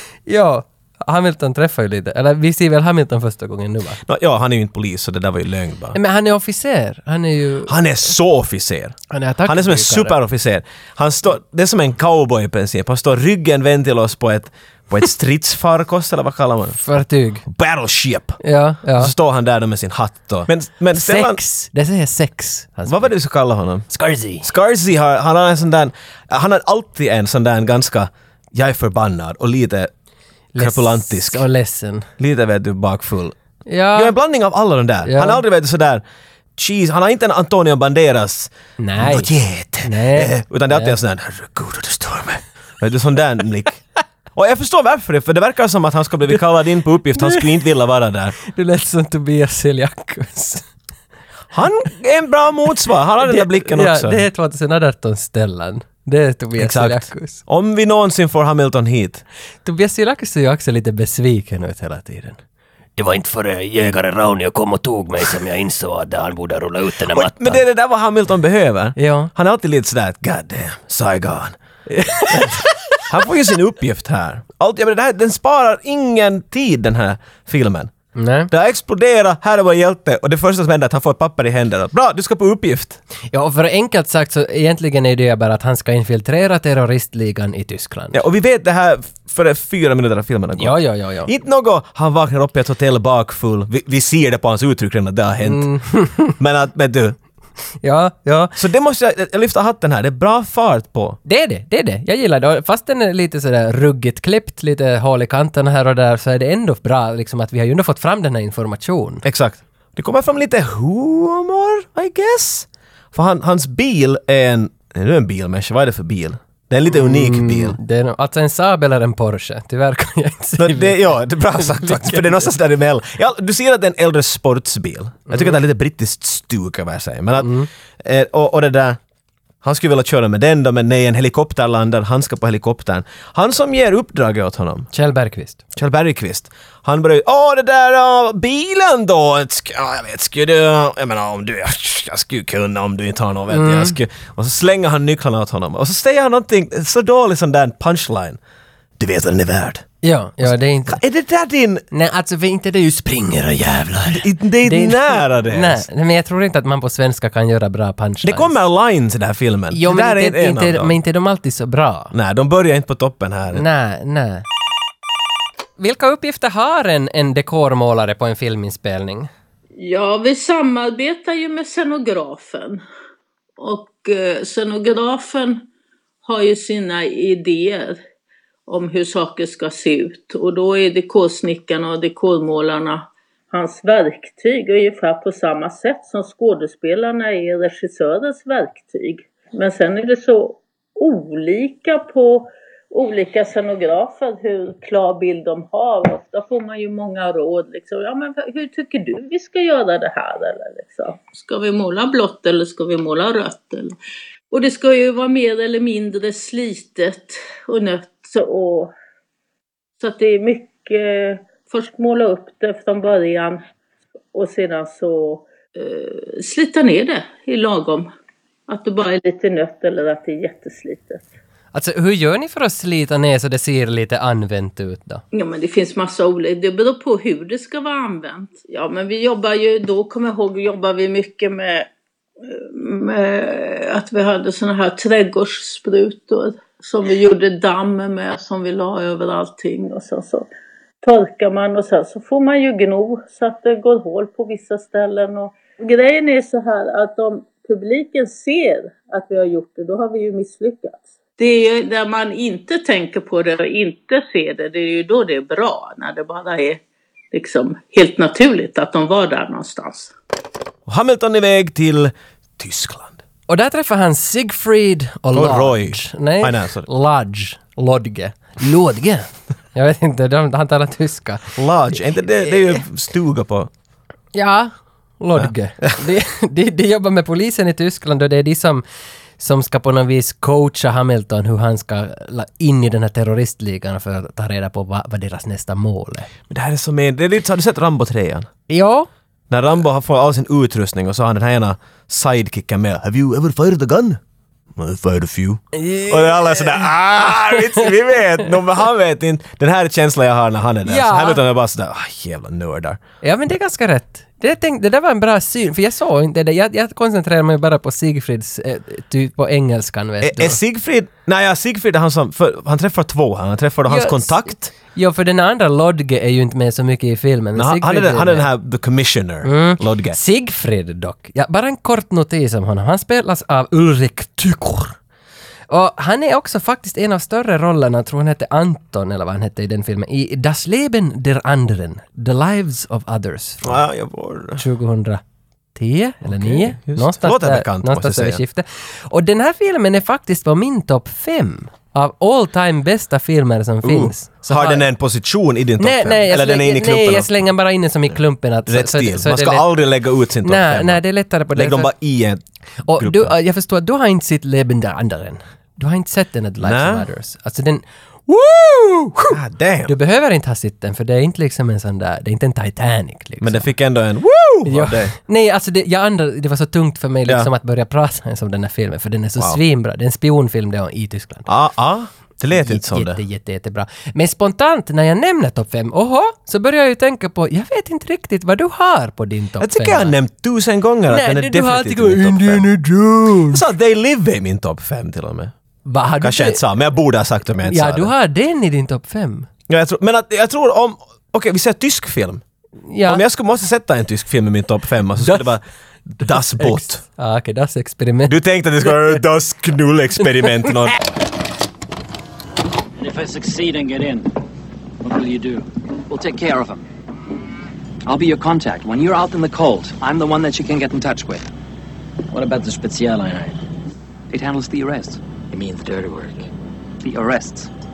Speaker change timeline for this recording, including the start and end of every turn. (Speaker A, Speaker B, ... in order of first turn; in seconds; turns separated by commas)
Speaker A: 0.2-4.0, Speaker B: 4.0-6.0, Speaker A: 5.9-7.7, Speaker B: 7.7-8.9, Speaker A: 9.1-10.2, Speaker B: 9.4-16.8, Speaker A: 16.8-17.4, Speaker B: 17.4-18.4, Speaker A: 18.4-19.1, Speaker B: 18.9-21.4, Speaker A: 20.9-23.1, Speaker B: 22.9-23.9, Speaker A: 23.9-24.4, Speaker B: 24.4-29.9, Speaker A: 30.5-32.1, Speaker B: 30.6-31.4, Speaker B: 32.2-33.4, Speaker A: 33.7-34.1, Speaker B: 33.9-36.0, Speaker A: 35.0-35.4, Speaker B: 36.6-43.8, Speaker A: 38.8-39.3, Speaker A: 39.8-41.0, Speaker B: 44.3-48.4, Speaker A: 47.2-47.4, Speaker A: 48.4-50.6, Speaker B: 51.5-54.2, Speaker A: 53.2-57.4, Speaker B: 56.5-59.2, Speaker A: 59.6-62.4, Speaker A: 63.0-67.6, Speaker B: 67.1-71.5, Speaker A: 69.0-69.3, Speaker A: 71.9-73.0, Speaker B: 72.3-77.9, Speaker A: 78.1-78.5, Speaker B: 78.5-83.0, Speaker A: 83.3-88.2, Speaker B: 88.1-95.7, Speaker A: 90.6-91.3, Speaker A: 95.4-96.3, Speaker B: 96.3-97.2, Speaker A: 97.8-98.6, Speaker B: 98.5-101.2, Speaker A: 101.2-109.2, Speaker B: 109.2-117.8, Speaker A: 116.9-122.5, Speaker B: 120.6-129.0, Speaker A: 125.3-125.6, Speaker A: 127.4-127.7, Speaker B: 129.6-134.9, Speaker A: 134.9-135.6, Speaker B: 135.7-148.4, Speaker A: 143.5-144.0, Speaker B: 149.0-149.8, Speaker A: 150.0-151.0, Speaker B: 150.4-151.8, Speaker A: 151.9-158.6, Speaker B: 154.1-155.8, Speaker B: 158.2-160.9, Speaker A: 159.7-162.1, Speaker B: 162.1-163.6, Speaker A: 163.5-164.5, Speaker A: 165.8-169.3, Speaker C: 169.8-172.8, Speaker C: 173.6-175.6, Speaker C: 176.2-178.0, Speaker C: 178.7-203.9, Speaker C: 204.5-208.9, Speaker C: 210.0-213.6, Speaker C: 214.3-218.1, Speaker C: 218.7-221.2, Speaker A: 221.7-225.2, Speaker C: 225.3-231.9, Speaker C: 232.4-240.5, Speaker C: 241.0-256.8, Speaker C: 257.3-260.1, Speaker B: 260.9-263.2, Speaker A: 263.5-271.5, Speaker B: 265.3-266.9, Speaker B: 271.6-273.7, Speaker A: 272.4-272.8, Speaker A: 274.3-278.8, Speaker B: 275.4-276.0, Speaker A: 279.4-286.3, Speaker B: 286.5-288.5, Speaker A: 288.7-289.1, Speaker B: 289.5-294.2, Speaker B: 294.8-303.0, Speaker A: 295.7-297.9, Speaker A: 300.9-301.4, Speaker A: 303.2-310.6, Speaker B: 310.2-314.7, Speaker A: 313.9-318.5, Speaker B: 317.6-320.2, Speaker A: 319.4-324.9, Speaker A: 325.7-333.8, Speaker B: 333.6-334.6, Speaker A: 334.6-335.2, Speaker A: 335.7-344.9, Speaker B: 336.2-338.4, Speaker B: 343.8-347.3, Speaker A: 345.8-349.7, Speaker B: 348.7-351.0, Speaker A: 350.4-351.9, Speaker B: 351.5-352.4, Speaker A: 352.9-363.7, Speaker B: 352.9-353.3, Speaker B: 356.6-357.0, Speaker B: 359.3-359.9, Speaker B: 363.4-365.1, Speaker A: 364.6-371.5, Speaker B: 371.5-373.2, Speaker A: 372.5-380.1, Speaker B: 379.6-382.6, Speaker A: 381.1-383.6, Speaker B: 383.5-385.5, Speaker A: 385.9-386.6, Speaker B: 386.2-388.1, Speaker A: 387.7-389.5, Speaker B: 389.7-392.4, Speaker A: 392.9-393.2, Speaker B: 393.1-395.6, Speaker A: 395.2-395.5, Speaker B: 396.2-397.0, Speaker A: 396.2-399.2, Speaker B: 398.3-401.0, Speaker A: 400.2-400.7, Speaker D: 403.0-404.3, Speaker D: 405.0-405.6, Speaker E: 406.1-406.8, Speaker E: 408.0-411.5, Speaker D: 412.3-413.6, Speaker E: 414.3-415.2, Speaker D: 415.5-416.5, Speaker E: 417.0-417.7